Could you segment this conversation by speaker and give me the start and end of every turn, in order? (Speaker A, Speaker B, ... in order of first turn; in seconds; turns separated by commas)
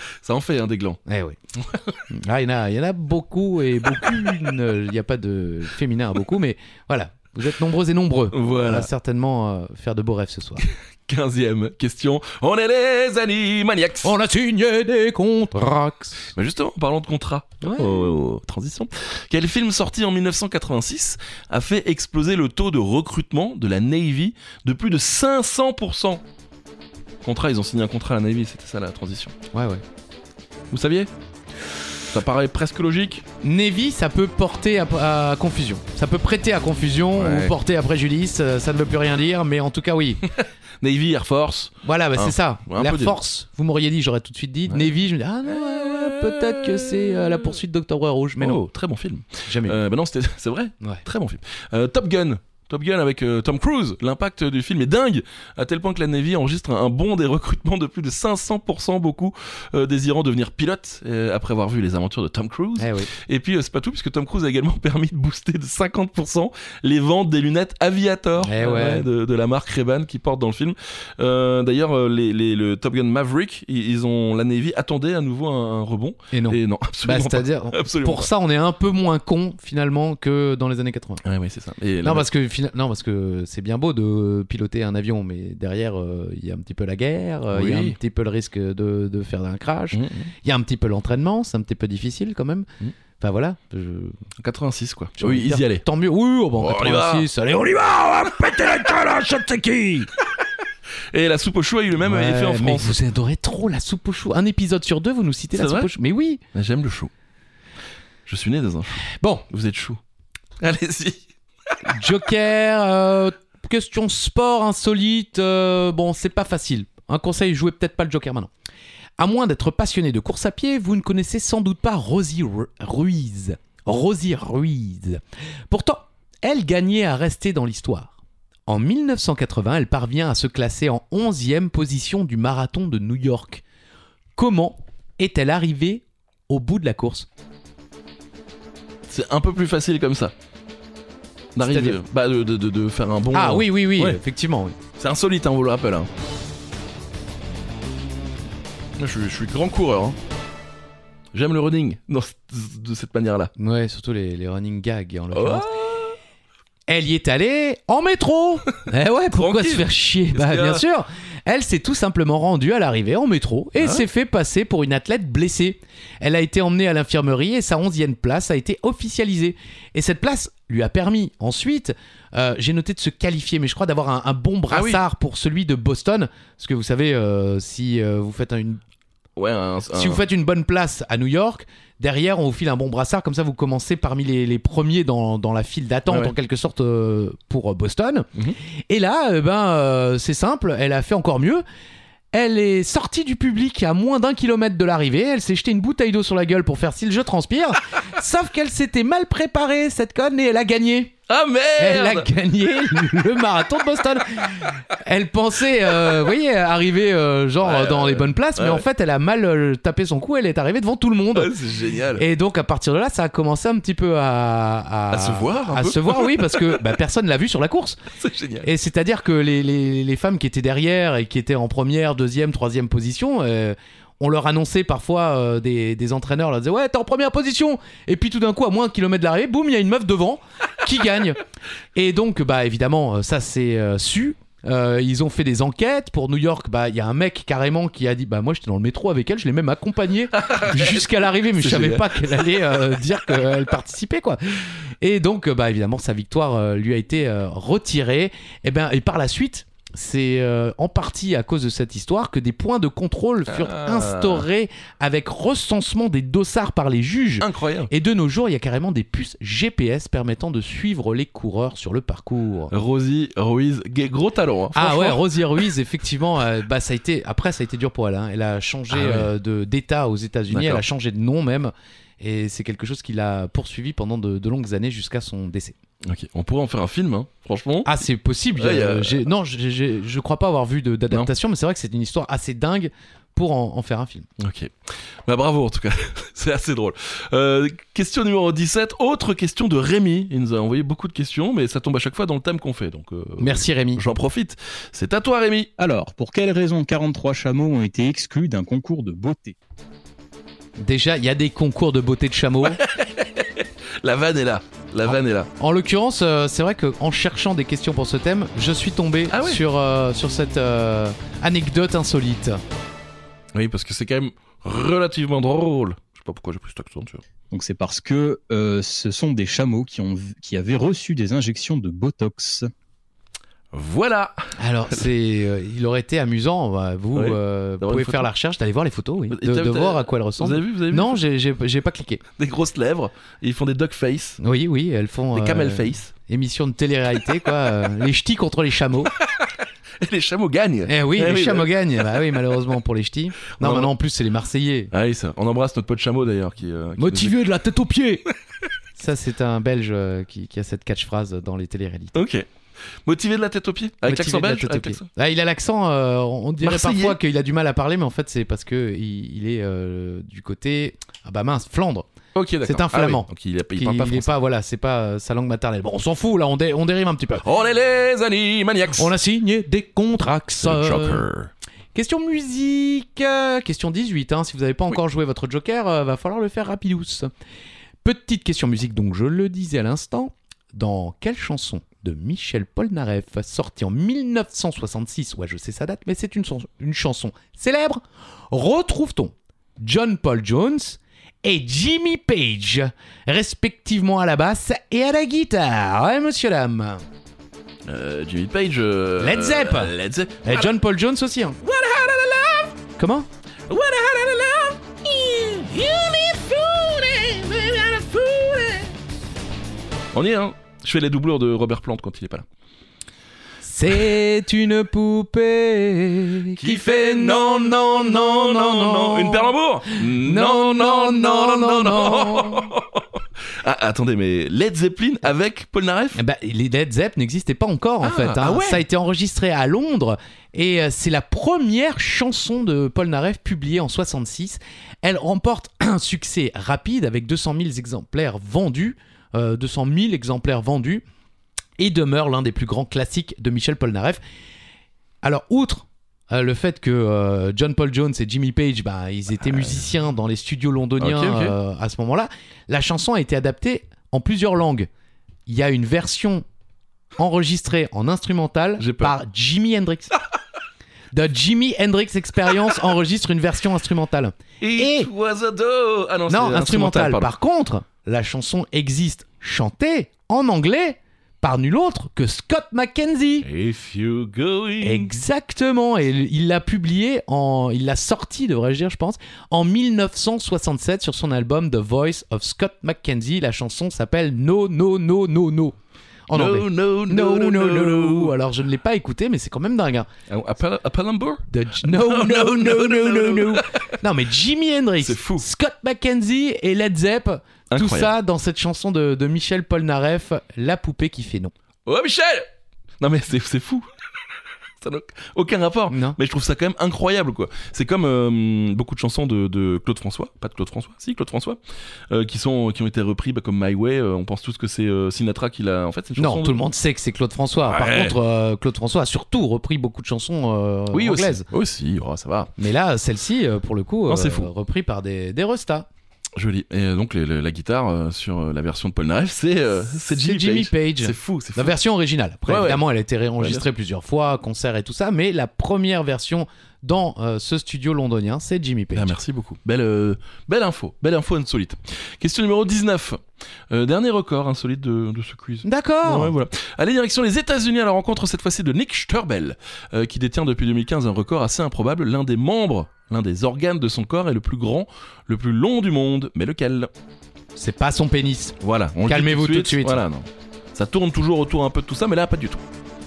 Speaker A: 0.2-1.0, Speaker B: 1.1-1.4, Speaker A: 1.6-2.0, Speaker B: 2.1-10.6, Speaker A: 8.3-8.9, Speaker A: 10.6-14.1, Speaker B: 14.0-16.3, Speaker A: 16.3-26.2, Speaker B: 17.6-18.1, Speaker A: 27.2-29.3, Speaker B: 29.5-29.8, Speaker A: 30.7-31.1, Speaker A: 32.1-33.2, Speaker B: 33.4-40.2, Speaker A: 37.1-37.5, Speaker A: 40.3-43.2, Speaker B: 41.8-48.6, Speaker A: 45.5-47.4, Speaker A: 48.4-78.3, Speaker B: 49.5-49.8, Speaker B: 62.8-63.1, Speaker B: 68.4-69.1, Speaker B: 76.3-81.2, Speaker A: 81.2-82.3, Speaker B: 82.0-92.7, Speaker A: 87.5-88.0, Speaker A: 89.9-90.3, Speaker B: 93.2-94.2, Speaker A: 94.4-95.8, Speaker B: 95.2-100.1, Speaker A: 96.6-97.3, Speaker A: 101.1-103.0, Speaker B: 102.0-106.4, Speaker A: 105.5-105.9, Speaker A: 106.5-107.1, Speaker A: 108.3-110.0, Speaker B: 109.0-109.4, Speaker A: 110.6-111.8, Speaker B: 111.8-118.5, Speaker B: 119.2-128.2, Speaker B: 128.7-133.6, Speaker B: 134.4-137.3, Speaker A: 139.1-140.3, Speaker A: 141.6-144.2, Speaker B: 141.6-142.0, Speaker B: 143.3-144.8, Speaker A: 145.0-146.1, Speaker A: 149.0-150.2, Speaker A: 151.3-153.5, Speaker B: 153.6-155.7, Speaker A: 155.3-156.2, Speaker B: 156.9-178.8, Speaker A: 159.3-160.8, Speaker A: 163.8-164.1, Speaker A: 174.7-175.0, Speaker A: 179.4-180.2, Speaker B: 179.9-188.3, Speaker B: 188.9-191.6, Speaker B: 192.3-201.1, Speaker A: 201.3-202.3, Speaker B: 201.8-211.5, Speaker A: 207.6-208.8, Speaker A: 211.3-212.2, Speaker B: 212.2-218.0, Speaker A: 215.1-216.8, Speaker A: 218.2-218.7, Speaker B: 218.6-231.4, Speaker B: 231.9-262.7, Speaker A: 240.3-242.8, Speaker A: 253.5-254.4, Speaker A: 257.4-257.9, Speaker A: 262.7-265.2, Speaker B: 264.8-275.8, Speaker A: 268.9-269.3, Speaker A: 270.5-270.8, Speaker A: 276.0-278.0, Speaker B: 277.9-284.3, Speaker A: 278.6-279.2, Speaker A: 284.4-295.7, Speaker B: 293.4-294.0, Speaker C: 295.8-299.6, Speaker B: 300.8-302.8, Speaker A: 302.7-305.5, Speaker B: 305.6-312.6, Speaker A: 309.3-309.6, Speaker A: 313.5-317.2, Speaker C: 317.5-322.7, Speaker A: 323.7-324.5, Speaker B: 324.6-332.2, Speaker A: 327.1-328.3, Speaker A: 329.3-331.2, Speaker A: 332.4-334.4, Speaker B: 334.4-339.1, Speaker A: 335.3-336.1, Speaker A: 340.0-341.7, Speaker B: 340.9-344.9, Speaker A: 343.6-343.9, Speaker A: 344.9-347.4, Speaker B: 347.0-348.2, Speaker B: 349.0-352.2, Speaker A: 352.1-352.5, Speaker A: 353.1-355.1, Speaker B: 354.0-362.1, Speaker A: 356.6-357.2, Speaker A: 362.4-364.3, Speaker B: 362.6-367.4, Speaker A: 367.4-369.1, Speaker B: 369.0-371.2, Speaker A: 370.6-371.5, Speaker B: 371.9-377.3, Speaker B: 378.0-397.1, Speaker A: 397.9-400.7, Speaker B: 399.2-399.9, Speaker B: 400.4-401.6, Speaker A: 401.6-402.8, Speaker B: 403.0-403.3, Speaker A: 403.7-408.9, Speaker A: 410.1-412.5, Speaker B: 413.6-422.7, Speaker A: 416.5-426.2, Speaker B: 426.1-441.0, Speaker A: 428.0-428.8, Speaker B: 441.8-444.2, Speaker B: 445.2-454.9, Speaker A: 451.0-451.6, Speaker B: 455.5-456.4, Speaker B: 457.2-460.1, Speaker A: 458.8-459.2, Speaker B: 461.1-465.1, Speaker A: 464.6-467.3, Speaker B: 466.3-473.5, Speaker A: 473.4-475.1, Speaker B: 474.8-485.8, Speaker B: 486.3-490.1, Speaker A: 486.3-488.4, Speaker A: 490.3-494.0, Speaker B: 491.5-501.5, Speaker A: 495.0-495.5, Speaker A: 497.7-498.1, Speaker A: 501.9-502.5, Speaker A: 503.0-503.9, Speaker A: 504.8-511.6, Speaker B: 505.9-506.2, Speaker A: 512.1-516.6, Speaker B: 516.2-521.5, Speaker A: 517.6-518.2, Speaker A: 520.9-522.5, Speaker B: 522.6-525.9, Speaker A: 524.1-524.5, Speaker A: 526.4-531.8, Speaker B: 529.9-539.2, Speaker A: 532.5-532.8, Speaker A: 533.4-533.6, Speaker A: 539.0-556.9, Speaker B: 545.6-546.3, Speaker B: 557.5-560.0, Speaker A: 558.6-562.6